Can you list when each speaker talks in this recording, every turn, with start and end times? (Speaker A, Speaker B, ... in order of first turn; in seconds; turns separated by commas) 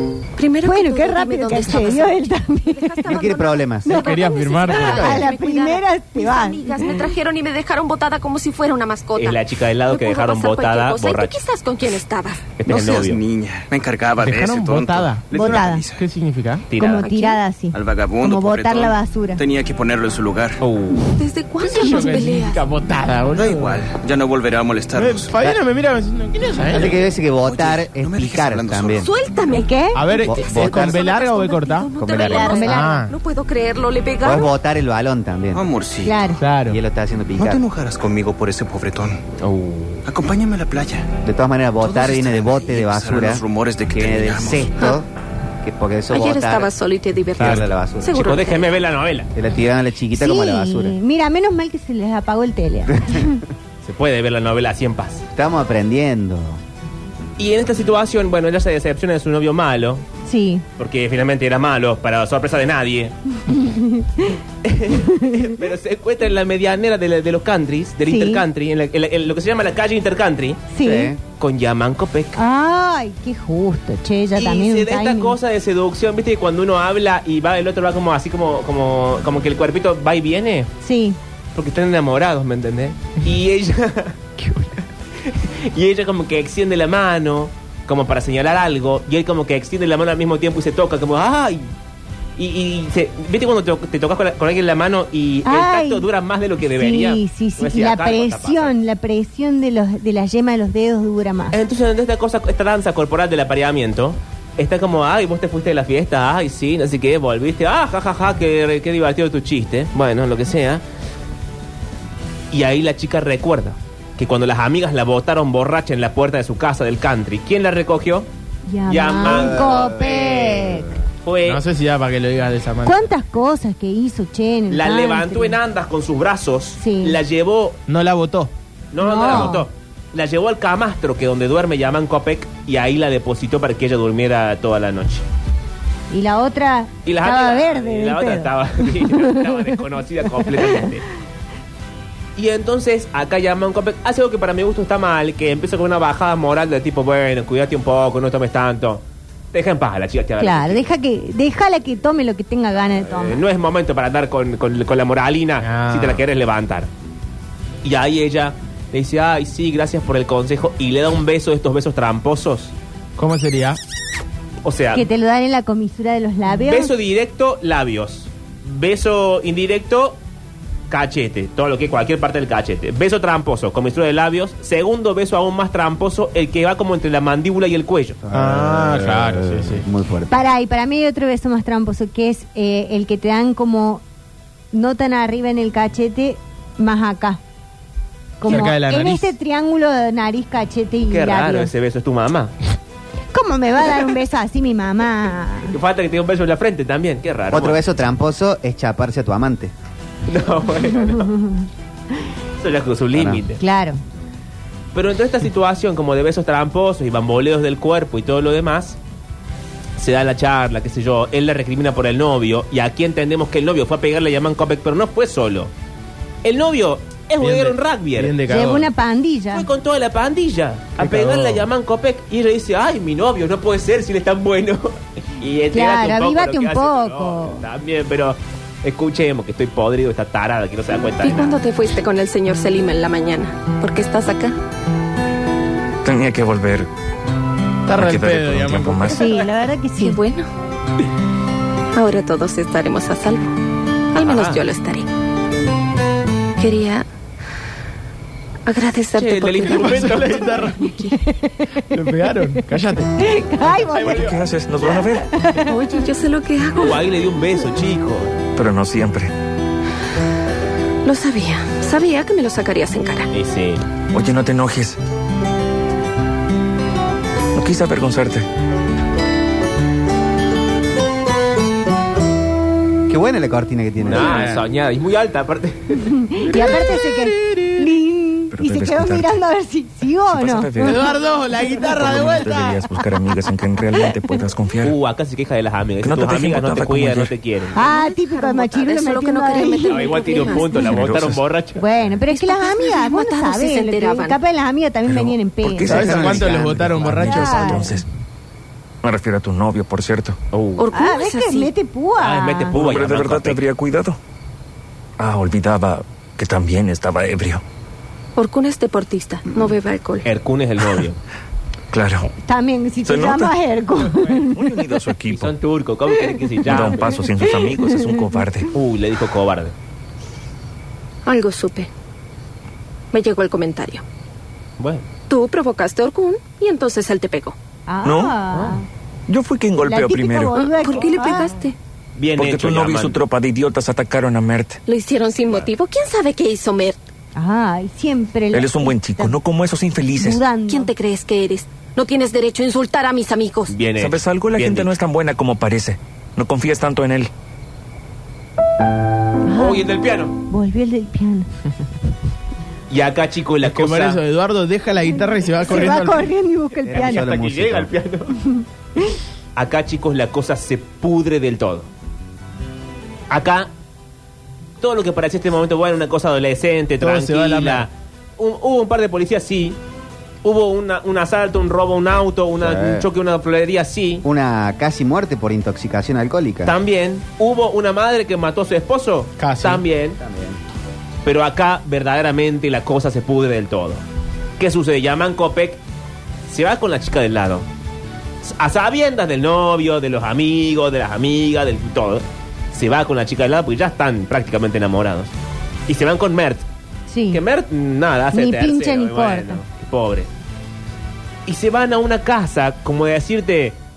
Speaker A: 0.4-12.6, Speaker B: 0.6-3.1, Speaker C: 3.1-4.0, Speaker B: 3.9-7.0, Speaker D: 4.0-5.2, Speaker E: 9.1-11.4, Speaker E: 12.6-13.2, Speaker F: 12.7-16.0, Speaker D: 14.2-16.7, Speaker B: 15.3-15.8, Speaker E: 16.7-17.1, Speaker B: 16.8-19.4, Speaker A: 17.0-17.4, Speaker F: 17.7-20.6, Speaker E: 20.6-21.1, Speaker A: 21.1-22.6, Speaker D: 21.6-23.8, Speaker F: 23.3-25.4, Speaker D: 24.9-27.0, Speaker C: 26.7-29.1, Speaker F: 26.7-29.0, Speaker A: 29.0-34.5, Speaker B: 29.5-30.0, Speaker D: 29.9-31.9, Speaker C: 30.2-31.1, Speaker C: 32.0-32.6, Speaker B: 32.3-33.0, Speaker D: 32.6-33.1, Speaker C: 34.2-35.7, Speaker F: 35.5-36.3, Speaker B: 36.0-36.4, Speaker D: 36.4-36.8, Speaker C: 36.6-37.6, Speaker F: 37.4-39.2, Speaker E: 39.4-40.0, Speaker F: 40.0-41.1, Speaker C: 41.2-45.1, Speaker F: 41.8-44.7, Speaker C: 45.6-46.7, Speaker A: 46.1-48.8, Speaker C: 47.4-48.2, Speaker E: 48.1-49.3, Speaker C: 49.3-51.0, Speaker B: 50.1-53.4, Speaker C: 52.9-53.4, Speaker E: 53.8-55.2, Speaker C: 55.3-56.6, Speaker E: 57.4-60.0, Speaker B: 60.2-60.6, Speaker E: 60.8-63.1, Speaker B: 63.5-64.4, Speaker E: 64.6-70.7, Speaker B: 65.0-65.4, Speaker B: 68.1-68.4, Speaker B: 70.7-71.1, Speaker C: 70.8-71.2, Speaker E: 71.4-72.4, Speaker B: 72.3-75.3, Speaker E: 74.3-80.7, Speaker B: 80.8-81.2, Speaker E: 81.5-84.3, Speaker E: 85.2-91.7, Speaker E: 92.4-98.7, Speaker B: 95.4-96.1, Speaker B: 96.8-101.6, Speaker E: 101.5-110.8, Speaker E: 112.5-118.3, Speaker B: 118.7-120.9, Speaker E: 118.9-121.6, Speaker C: 119.2-120.3, Speaker D: 121.4-123.1, Speaker B: 122.8-125.6, Speaker E: 124.7-127.8, Speaker B: 126.8-127.2, Speaker D: 127.9-128.5, Speaker E: 128.9-135.2, Speaker B: 129.0-129.7, Speaker B: 136.1-139.7, Speaker E: 137.1-141.0, Speaker B: 140.4-140.8, Speaker E: 142.3-150.9, Speaker B: 150.4-153.4, Speaker E: 153.0-156.9, Speaker D: 155.6-156.2, Speaker E: 157.8-162.7, Speaker D: 163.2-163.8, Speaker E: 164.6-165.1, Speaker B: 164.9-166.9, Speaker E: 166.5-170.2, Speaker E: 170.9-178.2, Speaker C: 178.2-180.4, Speaker D: 178.3-179.9, Speaker B: 180.3-184.0, Speaker B: 184.7-187.4, Speaker B: 188.4-191.7, Speaker D: 188.4-189.3, Speaker E: 191.1-192.5, Speaker B: 193.3-195.7, Speaker E: 195.7-197.8, Speaker C: 197.5-199.7, Speaker E: 200.3-201.3, Speaker B: 201.1-201.6, Speaker E: 202.6-203.6, Speaker C: 203.1-203.4, Speaker B: 203.6-204.0, Speaker E: 204.9-209.0, Speaker E: 210.0-215.7, Speaker E: 216.4-218.4, Speaker D: 217.4-218.9, Speaker B: 218.5-219.7, Speaker E: 219.5-231.6, Speaker D: 221.0-221.7, Speaker B: 225.7-227.6, Speaker A: 231.2-234.6, Speaker G: 236.0-236.9, Speaker D: 237.8-239.2, Speaker G: 237.9-239.2, Speaker B: 239.1-240.2, Speaker A: 240.0-240.5, Speaker A: 241.9-243.5, Speaker A: 244.1-245.1, Speaker E: 244.2-244.6, Speaker A: 246.6-247.0, Speaker A: 248.7-249.9, Speaker E: 249.1-250.7, Speaker D: 249.7-250.8, Speaker A: 250.8-251.2, Speaker B: 250.9-252.5, Speaker D: 251.8-253.3, Speaker B: 253.2-254.3, Speaker G: 254.1-255.3, Speaker B: 255.3-255.7, Speaker A: 255.6-257.1, Speaker E: 256.8-258.3, Speaker G: 258.6-259.3, Speaker A: 261.0-263.3, Speaker E: 263.3-263.8, Speaker G: 264.1-265.0, Speaker G: 267.5-268.4, Speaker C: 273.1-274.4, Speaker E: 274.0-276.5, Speaker D: 274.2-274.6, Speaker B: 276.2-281.0, Speaker G: 278.5-279.3, Speaker G: 280.3-281.0, Speaker D: 280.8-282.9, Speaker G: 281.9-284.9, Speaker E: 284.8-287.8, Speaker G: 286.0-287.3, Speaker A: 287.7-291.0, Speaker B: 287.7-290.6, Speaker E: 289.9-291.8, Speaker G: 290.8-291.4, Speaker B: 291.8-296.3, Speaker A: 292.2-294.4, Speaker G: 295.1-298.0, Speaker D: 295.8-298.0, Speaker C: 295.9-297.4, Speaker B: 297.2-298.0, Speaker G: 299.0-300.4, Speaker E: 300.5-300.9, Speaker A: 300.8-301.7, Speaker B: 300.9-302.8, Speaker E: 302.2-303.6, Speaker G: 302.7-304.2, Speaker G: 305.2-307.6, Speaker A: 308.4-310.3, Speaker E: 310.2-311.2, Speaker G: 311.9-312.3, Speaker B: 312.2-314.9, Speaker G: 313.0-313.5, Speaker G: 314.4-315.5, Speaker E: 315.3-317.2, Speaker G: 316.6-318.7, Speaker B: 317.4-318.1, Speaker E: 318.7-319.7, Speaker A: 321.2-321.9, Speaker A: 323.1-324.0, Speaker E: 324.8-325.1, Speaker A: 325.3-327.6, Speaker B: 327.9-328.8, Speaker G: 328.0-328.4, Speaker E: 328.5-328.8, Speaker G: 329.3-330.5, Speaker B: 329.8-331.5, Speaker A: 330.5-331.8, Speaker E: 332.2-333.2, Speaker G: 332.4-334.8, Speaker A: 334.9-337.0, Speaker B: 337.3-339.4, Speaker G: 338.5-340.4, Speaker B: 340.2-340.9, Speaker A: 340.6-343.8, Speaker E: 343.7-344.9, Speaker G: 343.9-347.3, Speaker B: 349.4-349.9, Speaker E: 349.5-350.3, Speaker B: 350.5-351.5, Speaker E: 352.9-354.2, Speaker D: 353.6-356.3, Speaker B: 355.1-357.3, Speaker C: 356.9-357.9, Speaker E: 356.9-358.3, Speaker B: 358.5-359.2, Speaker E: 359.6-361.9, Speaker E: 363.3-363.7, Speaker E: 364.8-369.8, Speaker D: 367.0-367.9, Speaker E: 370.4-374.2, Speaker C: 372.6-373.1, Speaker C: 374.2-376.7, Speaker E: 376.6-380.2, Speaker D: 379.4-379.8, Speaker C: 380.2-380.6, Speaker E: 381.2-384.0, Speaker E: 384.6-385.8, Speaker E: 386.5-387.6, Speaker E: 388.4-395.3, Speaker E: 395.9-396.6, Speaker B: 397.1-397.4, Speaker E: 397.3-400.3, Speaker B: 398.3-399.6, Speaker E: 401.5-403.8